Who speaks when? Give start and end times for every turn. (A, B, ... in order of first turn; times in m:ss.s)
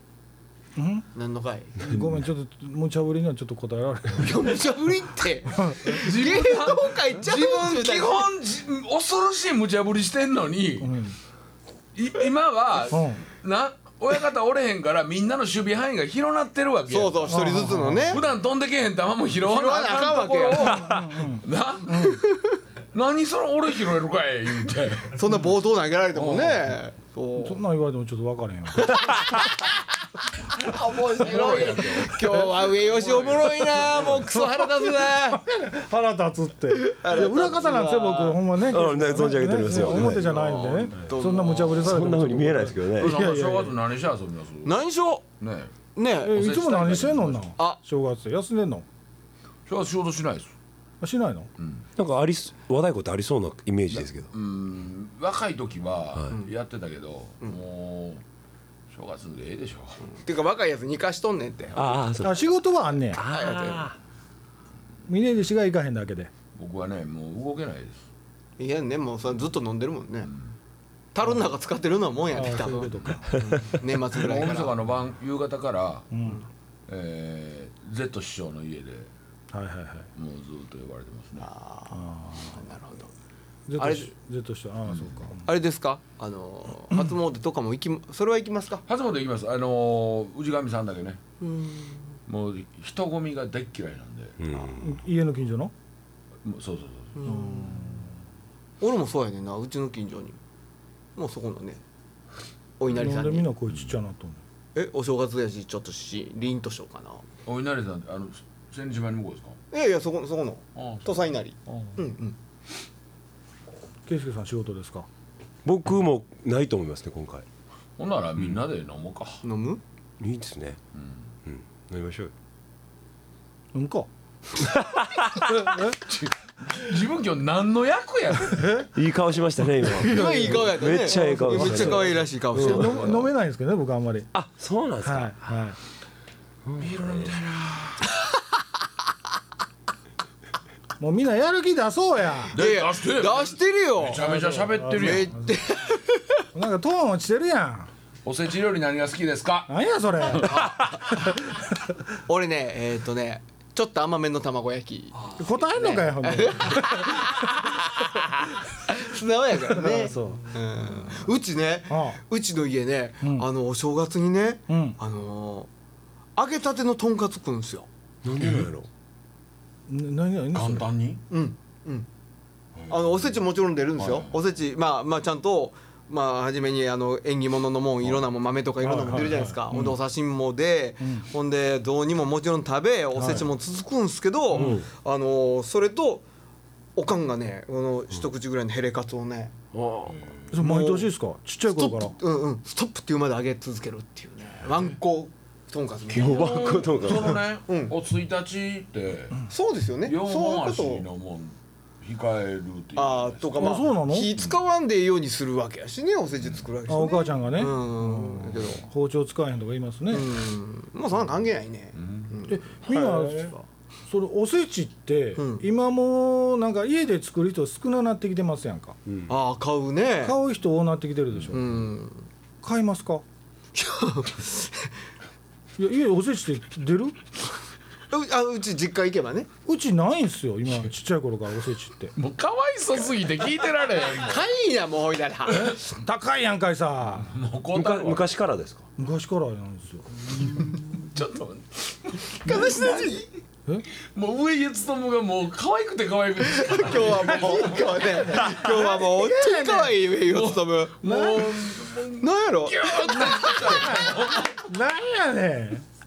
0:00.8-0:01.1 A
0:01.1-0:01.8 B
0:01.8-0:04.6 A
0:04.2-0:08.3 B
0:05.6-0:05.9 A
0:05.8-0:10.9 C
0:10.8-0:11.2 A
0:11.9-0:17.4 C
0:12.9-0:13.2 A
0:16.9-0:18.2 B
0:17.3-0:18.2 A
0:18.1-0:22.2 C
0:19.4-0:20.9 B
0:20.6-0:22.2 A
0:22.2-0:22.6 B
0:22.9-0:25.3 C
0:25.1-0:27.6 B
0:26.1-0:26.8 C
0:27.4-0:29.2 A
0:29.0-0:29.6 B
0:30.6-0:35.4 B
0:30.8-0:34.4 C
0:34.5-0:43.7 A
0:36.8-0:38.4 B
0:38.7-0:40.4 D
0:39.8-0:41.0 C
0:41.0-0:42.0 B
0:41.8-0:43.2 D
0:42.9-0:44.8 C
0:44.6-0:45.2 B
0:45.4-0:45.7 C
0:45.9-0:46.5 B
0:46.2-0:48.8 A
0:46.3-0:47.5 C
0:49.7-0:50.5 C
0:51.0-0:51.5 A
0:51.6-0:51.8 C
0:52.0-0:54.3 D
0:53.9-0:58.2 C
0:58.9-1:00.0 C
1:00.1-1:02.0 B
1:01.7-1:02.5 D
1:02.2-1:03.2 A
1:03.1-1:04.0 D
1:03.3-1:03.9 B
1:05.1-1:06.3 A
1:06.5-1:08.0 C
1:08.6-1:10.3 B
1:11.1-1:14.7 B
1:12.3-1:13.5 A
1:13.8-1:16.1 C
1:16.1-1:16.4 A
1:16.9-1:19.1 C
1:19.5-1:20.1 A
1:20.2-1:21.5 C
1:21.4-1:23.1 B
1:21.9-1:22.6 A
1:23.7-1:25.5 A
1:23.8-1:24.1 B
1:24.9-1:25.2 C
1:25.4-1:28.8 B
1:28.9-1:31.2 C
1:31.4-1:32.1 B
1:32.3-1:34.4 C
1:34.4-1:35.0 D
1:34.8-1:35.7 A
1:36.4-1:37.2 C
1:37.2-1:37.9 B
1:37.2-1:38.1 A
1:38.8-1:40.4 B
1:41.2-1:41.8 B
1:42.8-1:43.5 B
1:42.9-1:44.4 A
1:44.7-1:47.2 B
1:47.4-1:49.6 C
1:49.7-1:52.4 B
1:50.7-1:52.0 C
1:54.1-1:55.1 A
1:55.6-1:57.4 D
1:58.0-1:59.4 C
1:59.4-1:59.8 B
2:00.2-2:00.8 D
2:00.9-2:01.3 C
2:01.4-2:02.3 D
2:03.7-2:04.1 A
2:04.6-2:05.5 D
2:05.5-2:06.0 A
2:05.8-2:08.8 C
2:08.5-2:08.9 A
2:08.9-2:13.0 D
2:09.9-2:14.3 A
2:10.0-2:13.3 B
2:14.3-2:15.5 D
2:15.0-2:15.8 A
2:16.6-2:17.3 D
2:16.8-2:18.1 C
2:21.0-2:22.6 A
2:22.5-2:25.3 C
2:22.6-2:24.2 B
2:24.2-2:25.4 A
2:24.9-2:26.4 B
2:26.5-2:27.9 A
2:28.2-2:30.7 C
2:29.7-2:31.5 A
2:32.2-2:45.7 B
2:35.4-2:37.3 A
2:39.6-2:40.6 A
2:41.9-2:42.2 A
2:43.2-2:43.5 A
2:44.7-2:45.0 A
2:46.4-2:47.9 B
2:48.2-2:48.9 D
2:48.4-2:48.7 C
2:49.9-2:50.9 A
2:50.5-2:51.2 C
2:51.3-2:52.1 B
2:52.8-2:53.4 C
2:52.9-3:06.2 B
2:54.0-2:54.4 C
2:58.8-3:00.0 A
3:03.2-3:03.5 A
3:04.5-3:04.9 D
3:04.5-3:04.8 A
3:07.0-3:09.5 B
3:09.7-3:10.2 D
3:10.1-3:10.6 C
3:10.5-3:12.2 A
3:10.6-3:11.1 B
3:11.7-3:16.8 B
3:14.6-3:15.0 C
3:16.1-3:17.4 D
3:16.1-3:19.4 C
3:17.7-3:17.9 B
3:19.5-3:21.0 B
3:20.0-3:23.8 C
3:23.0-3:28.8 B
3:23.6-3:24.3 A
3:26.4-3:26.6 C
3:26.9-3:30.3 A
3:30.1-3:33.6 B
3:31.9-3:32.3 C
3:32.5-3:33.6 A
3:34.1-3:39.0 A
3:35.4-3:35.6 B
3:39.3-3:40.4 B
3:40.2-3:41.7 A
3:41.5-3:42.3 B
3:42.6-3:43.2 A
3:43.7-3:44.9 B
3:45.8-3:47.2 A
3:48.1-3:49.5 B
3:49.6-3:52.1 A
3:52.1-3:54.4 C
3:54.2-3:55.9 B
3:55.6-3:57.3 A
3:57.2-3:58.3 C
3:57.7-3:58.8 D
3:59.0-4:00.7 A
4:00.4-4:03.1 C
4:02.4-4:03.3 B
4:04.0-4:08.6 C
4:06.5-4:11.5 B
4:08.4-4:10.0 A
4:10.2-4:14.6 C
4:12.2-4:14.1 B
4:13.7-4:15.8 A